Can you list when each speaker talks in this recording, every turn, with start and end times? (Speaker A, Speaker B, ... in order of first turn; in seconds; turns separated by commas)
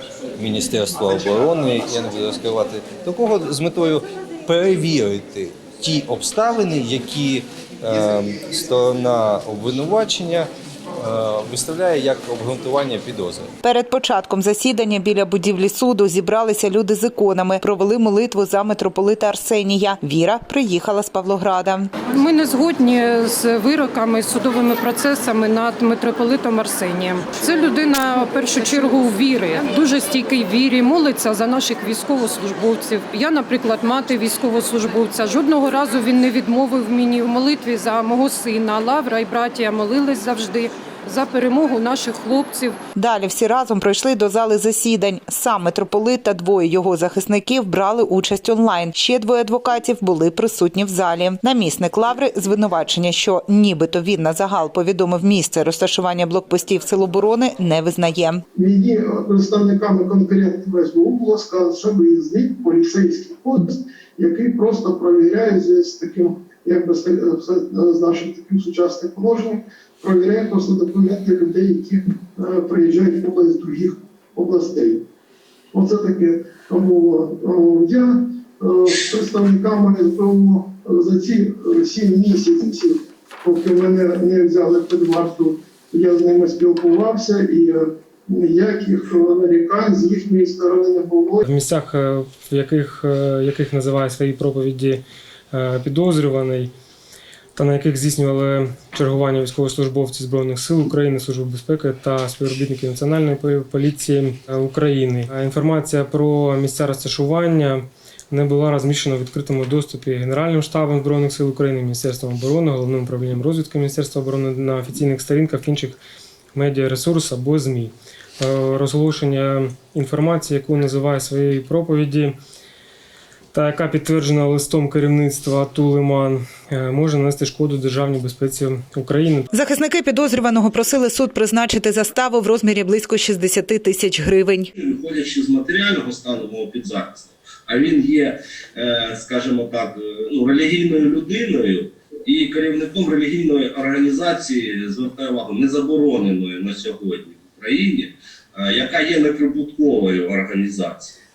Speaker A: 0.4-13.5, Speaker B: 13.6-21.9, Speaker C: 22.1-42.8, Speaker B: 43.0-58.4, Speaker D: 58.6-75.0, Speaker D: 75.7-91.4, Speaker E: 91.4-96.7, Speaker E: 97.5-116.0, Speaker E: 116.5-122.3, Speaker E: 123.5-129.5, Speaker B: 129.5-134.7, Speaker F: 134.8-151.2